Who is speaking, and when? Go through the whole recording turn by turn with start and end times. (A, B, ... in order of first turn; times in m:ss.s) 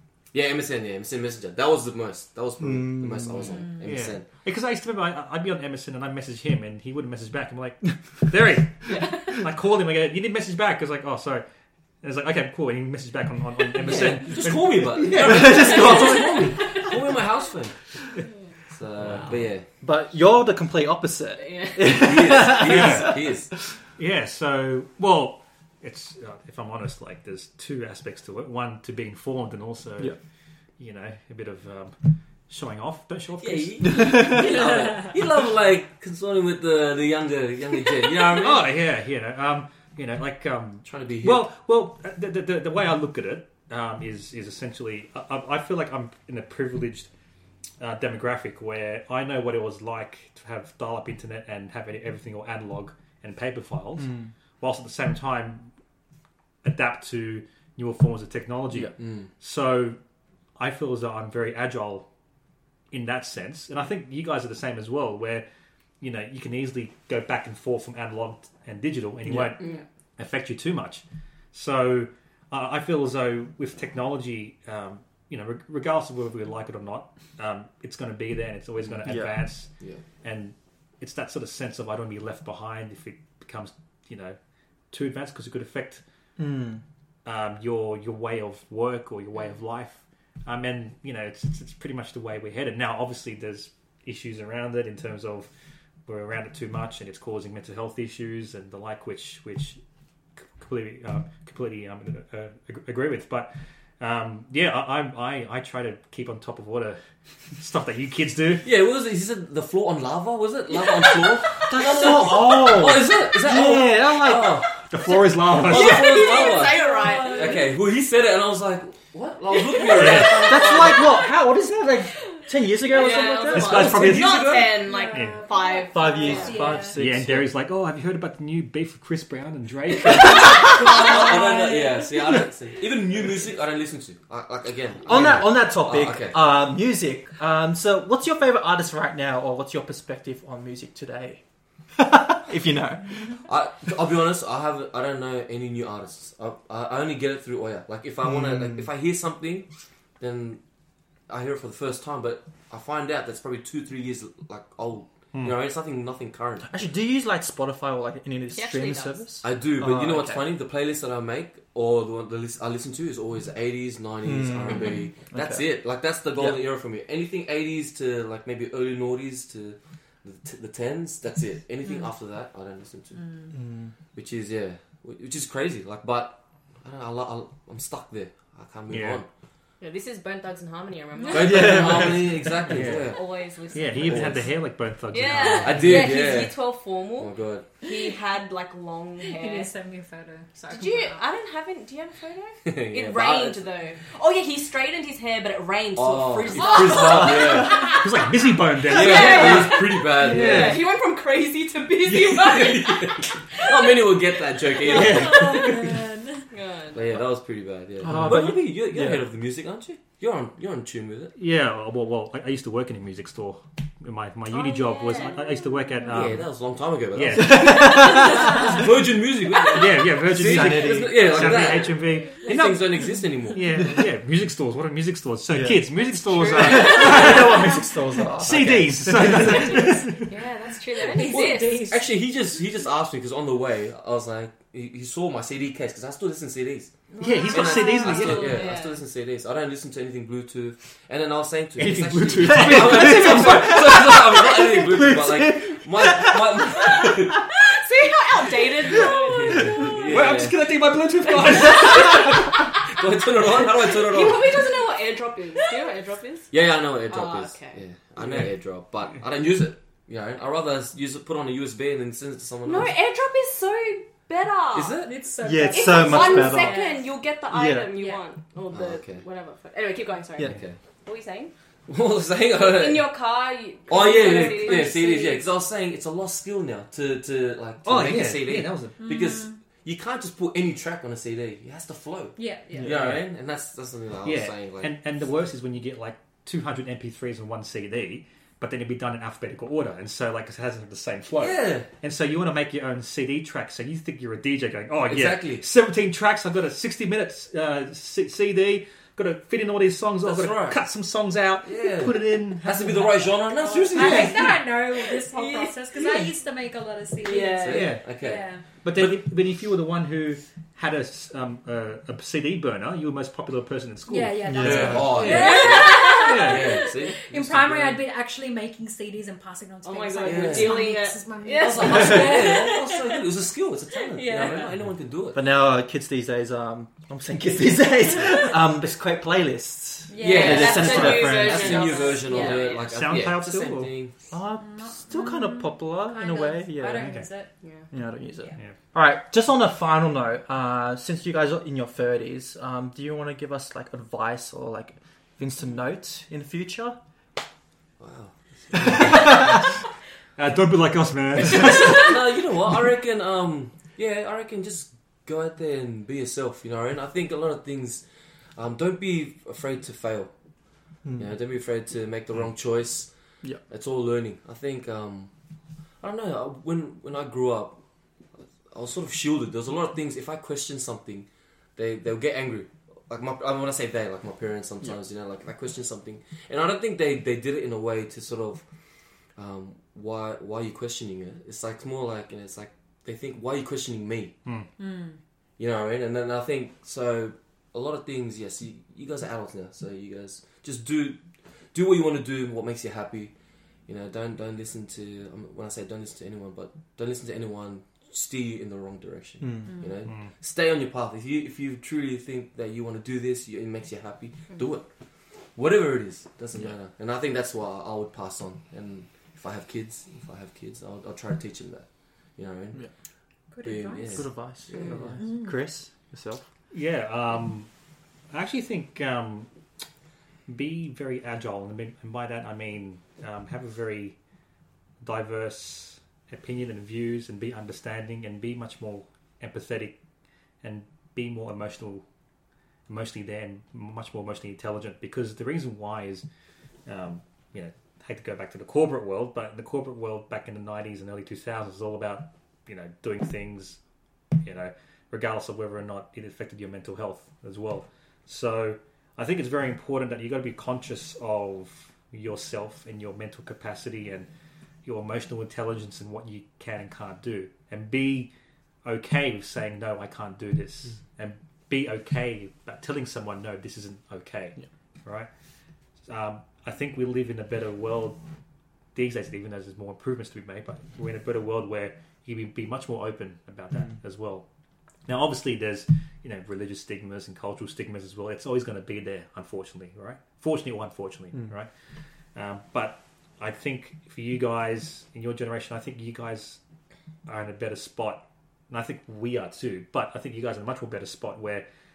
0:00.3-0:04.3 A
0:02.6-0:03.6 B
0:03.7-0:11.4 C
0:08.9-0:09.4 D
0:12.0-0:16.2 C
0:13.8-0:17.8 A
0:15.1-0:16.3 B
0:15.6-0:16.7 D
0:18.7-0:19.6 A
0:19.1-0:19.3 C
0:19.8-0:23.3 B
0:21.4-0:22.0 D
0:21.9-0:23.5 A
0:22.6-0:23.2 C
0:24.0-0:30.2 C
0:30.8-0:34.5 C
0:33.4-0:38.7 A
0:33.8-0:34.5 B
0:38.2-0:47.1 C
0:40.8-0:41.4 A
0:47.8-0:55.7 C
0:54.0-0:54.3 B
0:56.6-1:00.0 C
0:59.0-0:59.3 A
1:00.6-1:02.1 C
1:02.9-1:05.4 C
1:06.0-1:19.7 C
1:09.2-1:09.6 B
1:18.8-1:19.2 A
1:19.0-1:19.5 B
1:20.2-1:24.4 C
1:24.9-1:26.0 C
1:26.4-1:26.8 B
1:27.2-1:35.5 C
1:36.0-1:39.8 C
1:40.6-1:47.0 C
1:47.6-1:48.6 C
1:48.6-1:54.8 A
1:51.7-1:54.7 B
1:54.8-1:56.4 C
1:55.5-2:01.1 A
1:55.6-1:57.6 D
1:56.1-1:57.6 E
1:59.5-2:01.2 D
1:59.9-2:00.5 C
2:00.4-2:04.1 B
2:02.4-2:06.8 D
2:03.5-2:05.4 C
2:03.6-2:04.7 A
2:04.8-2:07.0 E
2:05.9-2:07.5 B
2:06.9-2:11.2 C
2:10.5-2:12.0 E
2:10.8-2:16.4 A
2:15.0-2:21.4 B
2:22.0-2:23.2 B
2:23.4-2:29.7 A
2:28.3-2:28.8 B
2:30.2-2:30.6 A
2:31.3-2:36.7 A
2:35.3-2:35.6 C
2:36.7-2:40.4 B
2:38.5-2:39.2 D
2:39.4-2:53.2 A
2:44.2-2:45.8 B
2:46.3-2:46.6 B
2:53.2-2:53.5 E
2:53.5-2:53.9 B
2:54.1-2:59.2 A
2:58.9-2:59.2 C
2:59.8-3:02.1 D
3:01.3-3:03.2 A
3:01.3-3:02.5 B
3:02.6-3:03.2 C
3:02.8-3:04.4 D
3:03.7-3:06.1 C
3:03.8-3:04.5 A
3:05.1-3:09.7 D
3:05.5-3:06.6 A
3:05.8-3:06.4 E
3:07.2-3:07.7 A
3:09.2-3:11.2 E
3:10.7-3:18.0 D
3:12.6-3:13.7 A
3:16.0-3:18.0 A
3:16.6-3:18.0 E
3:17.6-3:20.8 C
3:18.8-3:20.8 A
3:18.9-3:23.9 D
3:22.0-3:26.0 A
3:24.8-3:25.2 D
3:24.9-3:25.8 C
3:25.0-3:26.4 E
3:26.5-3:27.2 D
3:26.9-3:31.3 A
3:28.0-3:29.2 B
3:28.0-3:28.5 C
3:31.4-3:36.5 C
3:34.5-3:35.6 D
3:36.1-3:43.7 A
3:37.1-3:38.8 C
3:37.3-3:38.8 B
3:38.0-3:38.5 D
3:39.6-3:47.8 C
3:40.3-3:41.5 B
3:45.5-3:45.8 B
3:46.3-3:47.7 D
3:46.5-3:49.9 B
3:48.4-3:50.3 C
3:49.3-3:52.0 D
3:49.5-3:50.0 E
3:51.0-3:52.1 E
3:51.2-4:07.5 A
3:57.1-3:58.6 E
3:57.2-3:58.7 C
3:58.0-3:59.0 D
4:01.8-4:03.8 C
4:01.8-4:07.4 B
4:06.9-4:10.0 D
4:09.0-4:10.7 A
4:09.8-4:12.5 C
4:11.3-4:12.7 D
4:11.7-4:14.6 A
4:13.6-4:16.5 D
4:16.5-4:22.9 A
4:17.1-4:17.8 D
4:18.2-4:18.5 C
4:22.6-4:25.1 D
4:24.7-4:25.1 A
4:25.0-4:27.1 E
4:25.4-4:26.8 B
4:25.7-4:31.5 D
4:27.5-4:27.9 B
4:27.9-4:28.2 E
4:28.7-4:29.2 A
4:30.4-4:30.8 A
4:31.9-4:33.1 A
4:32.6-4:35.4 D
4:33.9-4:44.9 A
4:34.1-4:35.4 E
4:37.8-4:39.0 C
4:39.0-4:39.6 E
4:42.4-4:42.9 E
4:42.8-4:43.3 C
4:44.2-5:04.5 C
4:51.4-4:51.9 A
4:55.0-4:55.6 A
5:00.2-5:00.8 A
5:01.6-5:04.5 A
5:03.7-5:04.0 D
5:03.9-5:08.6 E
5:05.0-5:06.3 D
5:07.2-5:07.9 D
5:07.6-5:09.2 A
5:07.7-5:08.0 C
5:08.8-5:15.6 C
5:14.1-5:22.8 E
5:14.4-5:15.1 B
5:14.6-5:18.0 A
5:15.2-5:16.9 D
5:16.1-5:16.6 C
5:19.8-5:23.2 D
5:20.2-5:20.9 A
5:21.6-5:25.4 A
5:24.0-5:24.7 D
5:25.3-5:31.9 B
5:30.1-5:31.0 E
5:30.1-5:32.9 D
5:30.2-5:34.1 A
5:31.6-5:32.6 E
5:32.3-5:33.9 C
5:34.3-5:37.1 B
5:34.6-5:37.5 E
5:36.9-5:37.3 C
5:37.6-5:37.9 D
5:37.9-5:47.0 B
5:48.0-5:49.5 A
5:48.8-5:49.6 B
5:48.8-5:49.6 C
5:50.4-5:52.4 C
5:51.5-5:58.0 A
5:58.6-6:00.3 A
6:01.0-6:01.3 B
6:01.2-6:03.1 A
6:03.7-6:05.3 A
6:06.0-6:07.8 A
6:08.4-6:18.6 A
6:19.4-6:24.4 A
6:24.8-6:25.2 E
6:25.6-6:31.2 A
6:31.7-6:33.3 A
6:33.9-6:44.9 A
6:39.4-6:39.7 B
6:39.6-6:39.9 E
6:40.1-6:40.3 C
6:45.5-6:52.8 A
6:53.5-6:54.3 E
6:53.6-6:55.2 A
6:54.1-6:56.4 B
6:55.2-6:55.5 E
6:56.7-6:57.7 C
6:58.3-6:59.5 C
7:00.5-7:04.2 C
7:05.0-7:10.0 C
7:10.6-7:12.0 C
7:12.9-7:16.2 C
7:16.8-7:23.8 C
7:24.4-7:34.3 C
7:34.8-7:38.3 C
7:38.8-7:45.3 C
7:46.0-7:48.2 C
7:48.9-7:54.4 C
7:55.0-8:01.7 C
8:02.3-8:06.6 C
8:07.2-8:11.7 C